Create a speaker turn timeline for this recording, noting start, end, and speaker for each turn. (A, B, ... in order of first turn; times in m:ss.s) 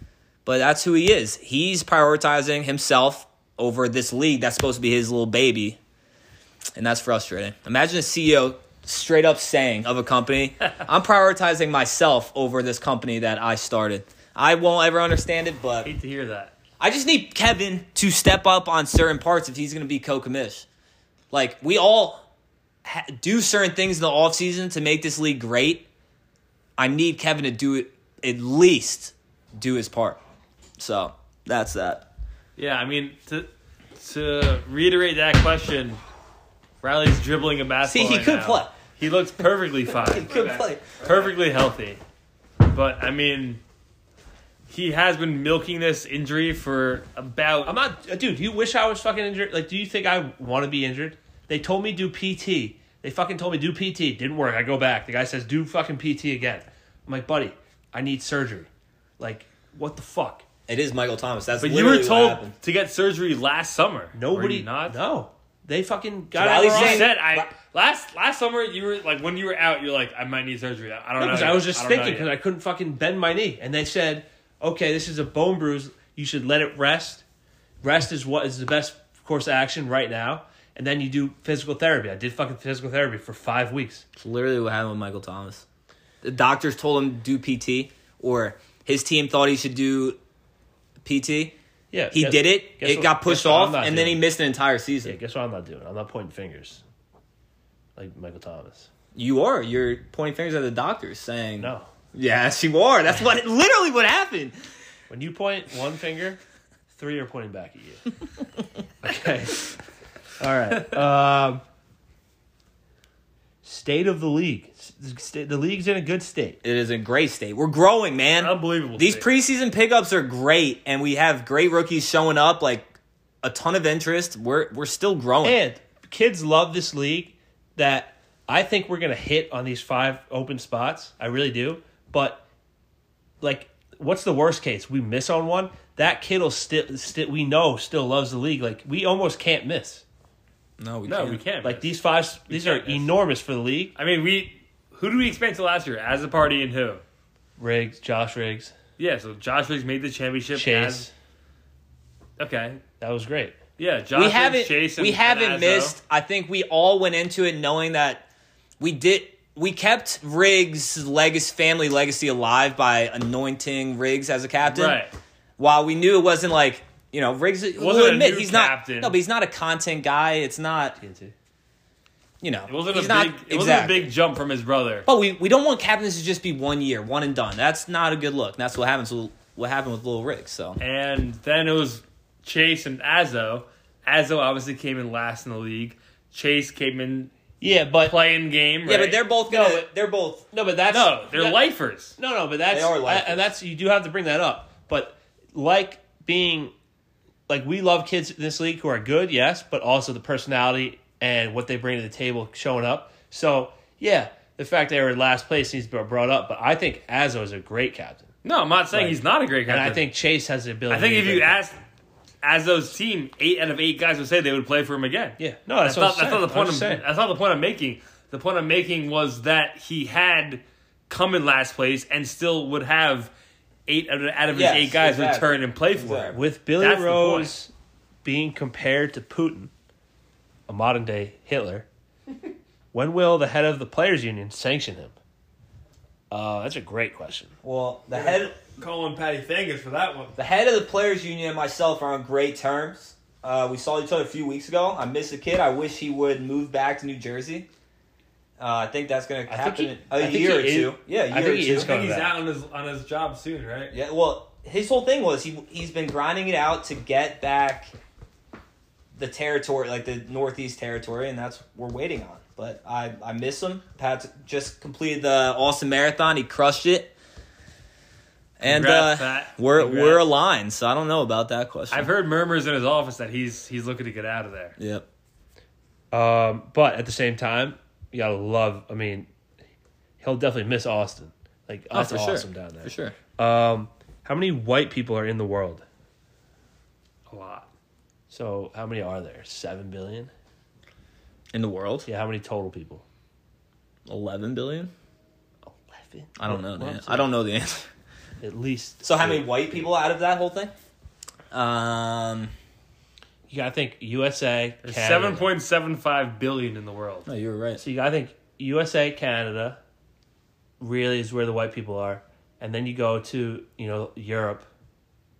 0:00.4-0:05.8 A
0:06.8-0:15.9 A
0:15.8-0:16.5 B
0:16.8-0:20.7 A
0:21.3-0:22.2 A
0:22.8-0:25.9 A
0:26.8-0:30.2 A
0:30.8-0:32.1 A
0:32.6-0:36.0 B
0:36.8-0:42.0 B
0:37.8-0:38.8 A
0:39.9-0:41.3 A
0:42.6-0:43.6 B
0:44.7-0:47.8 B
0:47.6-1:00.4 C
1:00.7-1:02.5 A
1:01.6-1:05.0 B
1:04.1-1:07.2 C
1:06.4-1:07.5 A
1:06.7-1:12.3 B
1:11.2-1:17.2 C
1:17.8-1:24.0 C
1:24.2-1:25.6 A
1:26.2-1:30.2 A
1:31.0-1:31.6 A
1:31.9-1:34.2 C
1:32.1-1:35.2 A
1:35.0-1:36.8 C
1:38.0-1:38.9 C
1:39.2-1:44.6 A
1:41.6-1:41.9 C
1:45.1-1:46.4 C
1:46.9-1:48.1 C
1:49.0-1:49.8 C
1:50.4-1:51.6 C
1:53.6-1:56.6 C
1:56.6-2:02.9 A
1:58.4-1:59.3 B
2:03.4-2:05.6 A
2:05.4-2:12.4 C
2:13.4-2:20.0 C
2:20.8-2:21.4 A
2:21.1-2:21.9 B
2:21.6-2:23.9 C
2:22.5-2:23.1 B
2:24.0-2:27.0 B
2:27.6-2:28.7 C
2:29.0-2:31.0 B
2:30.6-2:31.1 C
2:32.4-2:32.8 B
2:33.0-2:33.6 C
2:33.8-2:36.0 B
2:34.1-2:38.3 A
2:38.8-2:45.0 A
2:44.7-2:45.1 B
2:45.6-2:51.0 A
2:47.8-2:49.2 B
2:51.0-2:51.3 C
2:52.4-2:54.1 A
2:52.7-2:55.1 B
2:55.1-3:00.8 A
3:00.8-3:07.3 B
3:07.6-3:08.2 C
3:08.0-3:09.2 B
3:08.8-3:10.5 A
3:09.5-3:09.9 C
3:10.5-3:11.7 C
3:10.9-3:12.2 B
3:12.2-3:16.7 C
3:12.7-3:13.4 A
3:17.5-3:28.3 C
3:28.4-3:30.0 B
3:28.9-3:31.6 C
3:30.9-3:31.8 B
3:32.4-3:43.3 B
3:35.4-3:37.0 C
3:43.9-3:47.5 B
3:44.5-3:46.4 A
3:46.3-3:47.7 C
3:48.2-3:49.7 C
3:50.7-3:51.9 C
3:52.9-3:55.1 C
3:56.3-3:57.5 C
3:57.6-3:58.6 A
3:58.1-4:00.4 B
4:00.4-4:07.7 A
4:08.6-4:11.9 A
4:09.5-4:12.4 C
4:11.7-4:14.0 B
4:13.9-4:17.9 A
4:19.1-4:27.2 A
4:28.6-4:32.1 A
4:28.6-4:30.2 B
4:31.9-4:34.8 B
4:34.8-4:35.1 A
4:36.1-4:39.3 C
4:40.2-4:45.8 C
4:41.9-4:43.2 A
4:47.3-4:47.7 B
4:48.3-4:50.3 C
4:51.5-4:52.1 A
4:52.1-4:53.0 C
4:54.1-4:54.9 A
4:55.7-4:57.3 C
4:56.4-4:57.9 A
4:58.4-4:59.9 C
4:59.0-5:00.7 A
5:01.5-5:02.5 A
5:03.5-5:05.5 C
5:04.8-5:07.3 B
5:07.3-5:07.8 A
5:07.8-5:09.8 C
5:10.8-5:14.7 C